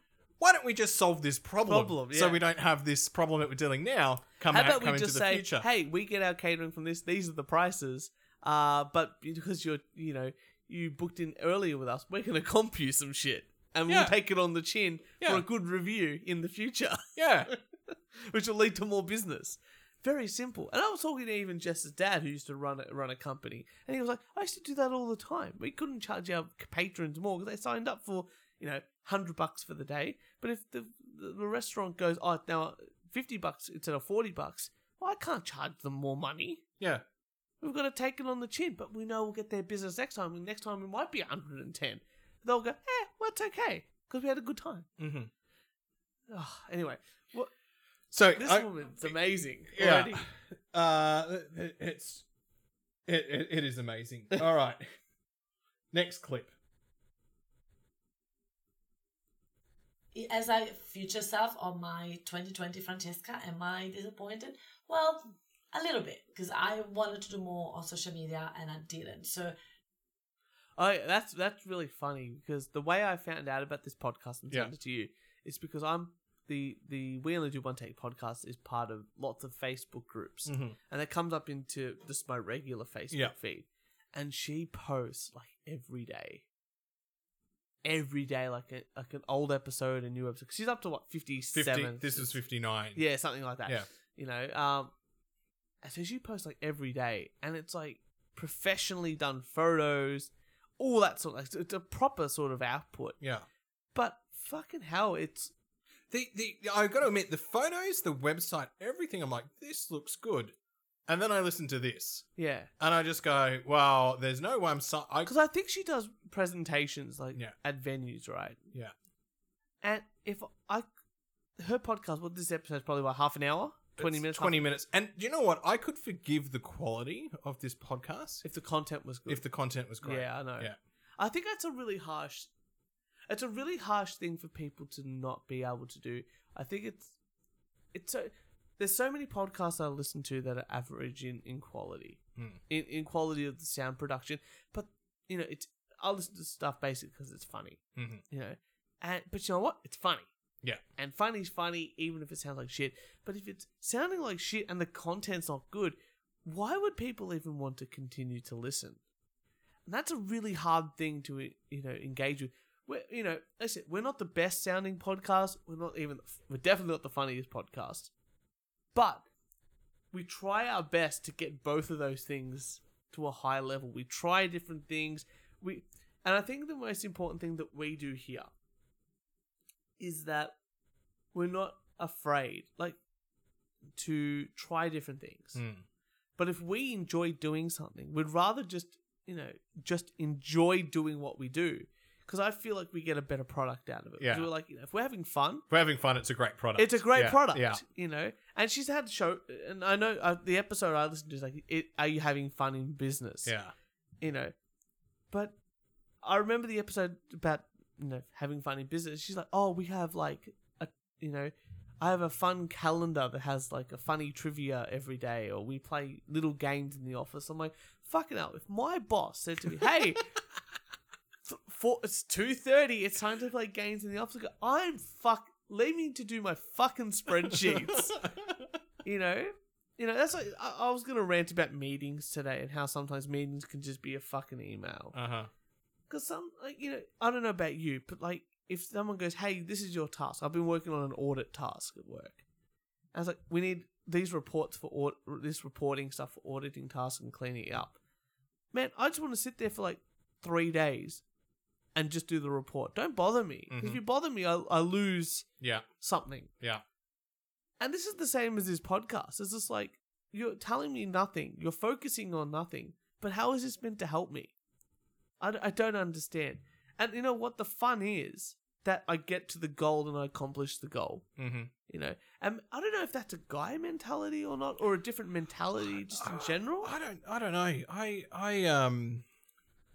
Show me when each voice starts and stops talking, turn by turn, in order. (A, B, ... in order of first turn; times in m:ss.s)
0:00.4-0:05.6 A
0:01.6-0:02.4 B
0:04.5-0:36.6 B
0:13.9-0:14.1 A
0:17.2-0:17.5 A
0:37.6-0:44.9 B
0:45.0-0:45.3 A
0:46.3-0:47.5 B
0:48.1-0:49.2 A
0:48.3-0:50.2 B
0:49.7-0:52.2 A
0:53.1-0:54.8 A
0:55.9-0:56.5 A
1:00.1-1:09.6 C
1:10.8-1:26.4 B
1:20.4-1:20.8 A
1:27.8-1:32.4 B
1:31.5-1:33.0 A
1:32.9-1:34.9 B
1:35.8-1:43.2 B
1:43.2-1:43.4 A
1:43.9-1:45.5 B
1:46.1-1:50.5 A
1:51.1-1:52.3 A
1:52.4-1:52.7 B
1:52.8-1:55.3 A
1:55.2-1:58.6 B
1:59.8-2:00.9 B
2:01.6-2:04.6 B
2:04.0-2:08.4 A
2:08.4-2:09.4 B
2:09.3-2:10.8 A
2:10.0-2:12.5 B
2:13.3-2:17.1 B
2:17.9-2:30.3 B
2:28.0-2:28.2 A
2:31.0-2:39.0 B
2:39.8-2:48.1 B
2:48.9-2:49.2 B
2:50.1-2:58.5 B
3:00.0-3:00.5 B
3:01.3-3:03.0 B
3:04.0-3:05.6 B
3:05.5-3:05.8 A
3:06.4-3:15.6 B
3:14.2-3:14.5 A
3:15.7-3:17.8 A
3:16.8-3:23.5 B
3:23.4-3:23.7 A
3:24.2-3:24.5 B
3:25.3-3:25.6 B
3:26.2-3:40.3 B
3:41.4-3:48.2 B
3:47.5-3:48.6 A
3:49.0-3:55.1 B
3:55.1-3:55.5 A
3:56.1-4:02.4 B
4:03.1-4:08.0 B
4:08.7-4:11.2 B
4:11.9-4:15.5 B
4:13.7-4:14.0 A
4:15.6-4:15.9 A
4:16.0-4:16.5 B
4:17.8-4:24.5 B
4:25.4-4:31.3 B
4:31.4-4:31.7 A
4:31.9-4:36.9 B
4:36.1-4:39.2 A